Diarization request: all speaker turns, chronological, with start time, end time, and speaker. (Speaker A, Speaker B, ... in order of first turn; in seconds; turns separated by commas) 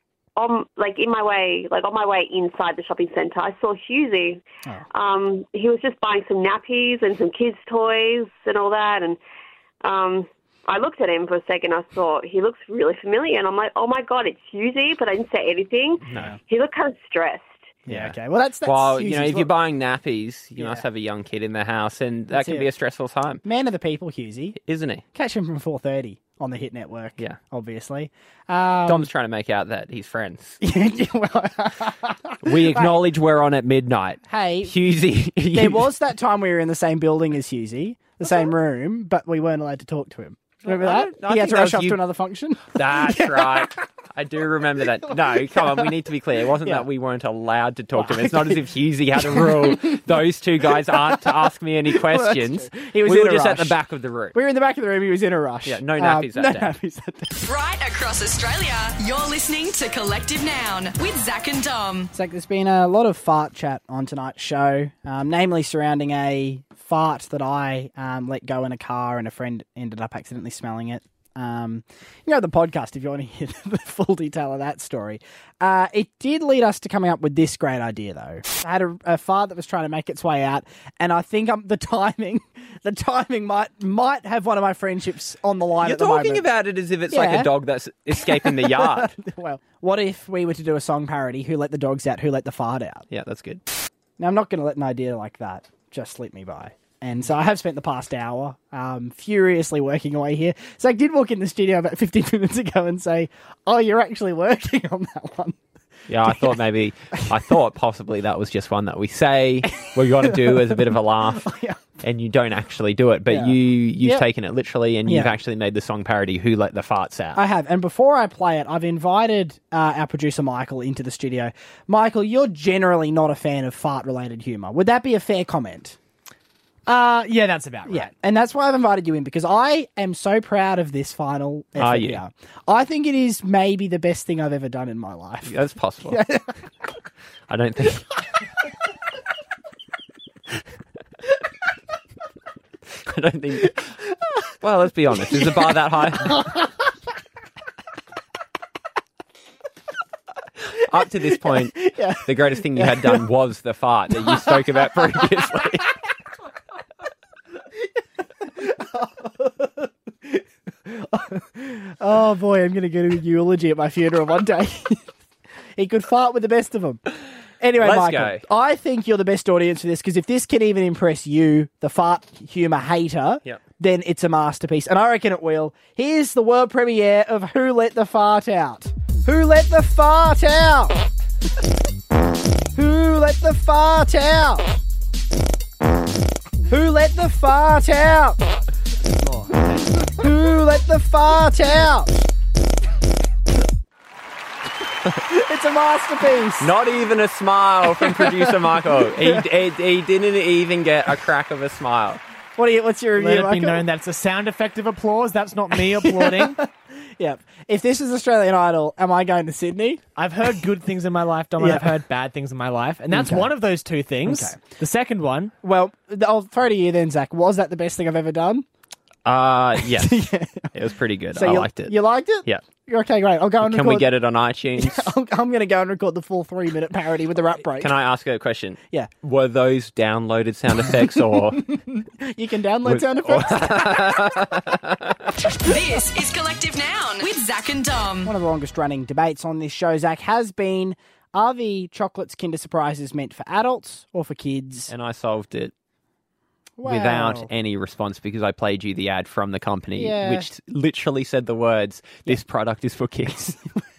Speaker A: 0.4-9.2, Speaker A: 9.8-17.8, Speaker B: 16.1-16.4, Speaker C: 17.9-19.5, Speaker B: 17.9-23.4, Speaker C: 20.6-20.9, Speaker C: 22.3-22.7, Speaker C: 23.4-24.6, Speaker B: 24.6-25.0, Speaker C: 25.1-29.1, Speaker B: 28.9-30.6, Speaker C: 30.6-33.0, Speaker B: 32.4-35.9, Speaker C: 34.3-34.8, Speaker C: 35.4-43.8, Speaker B: 40.6-42.0, Speaker B: 42.7-54.4, Speaker C: 45.1-45.9, Speaker C: 46.6-46.9, Speaker C: 48.0-53.8, Speaker C: 54.3-57.4, Speaker B: 55.7-56.7, Speaker D: 57.4-62.1, Speaker C: 62.1-86.5, Speaker B: 85.8-89.1, Speaker C: 87.1-87.5, Speaker C: 88.2-93.1, Speaker B: 93.1-93.6, Speaker C: 94.2-105.6, Speaker B: 106.1-111.5, Speaker C: 106.3-106.5, Speaker C: 109.9-111.8, Speaker B: 112.0-117.4, Speaker C: 113.3-114.3, Speaker C: 115.1-115.3, Speaker C: 117.3-126.0, Speaker C: 126.9-127.3, Speaker E: 127.1-128.1, Speaker C: 127.8-135.6, Speaker B: 131.8-132.2, Speaker B: 135.5-136.2, Speaker C: 136.1-136.5, Speaker B: 137.5-138.1, Speaker B: 143.0-143.9, Speaker B: 144.6-146.4, Speaker C: 145.3-146.7, Speaker B: 150.8-155.9, Speaker C: 151.0-153.2, Speaker C: 154.2-155.7, Speaker C: 158.4-165.1, Speaker C: 165.8-167.0, Speaker C: 167.6-181.0, Speaker B: 167.8-168.4, Speaker C: 182.8-184.8, Speaker C: 186.7-188.4, Speaker C: 189.9-192.3, Speaker C: 195.2-196.7, Speaker B: 196.6-202.2, Speaker C: 197.9-199.5, Speaker C: 202.6-203.9, Speaker E: 203.2-206.6, Speaker C: 205.7-210.5, Speaker E: 210.2-215.5, Speaker C: 211.6-212.0, Speaker C: 213.1-213.5, Speaker C: 214.2-214.6, Speaker C: 215.6-218.7, Speaker B: 219.2-222.6, Speaker C: 219.8-220.7, Speaker C: 221.3-224.1, Speaker B: 223.6-225.1, Speaker C: 224.8-227.9, Speaker B: 227.8-231.7, Speaker C: 230.9-234.7, Speaker B: 232.9-235.3, Speaker D: 235.6-238.3, Speaker C: 238.2-244.9, Speaker B: 244.9-245.7, Speaker C: 246.8-247.5, Speaker B: 246.8-253.6, Speaker C: 250.0-250.5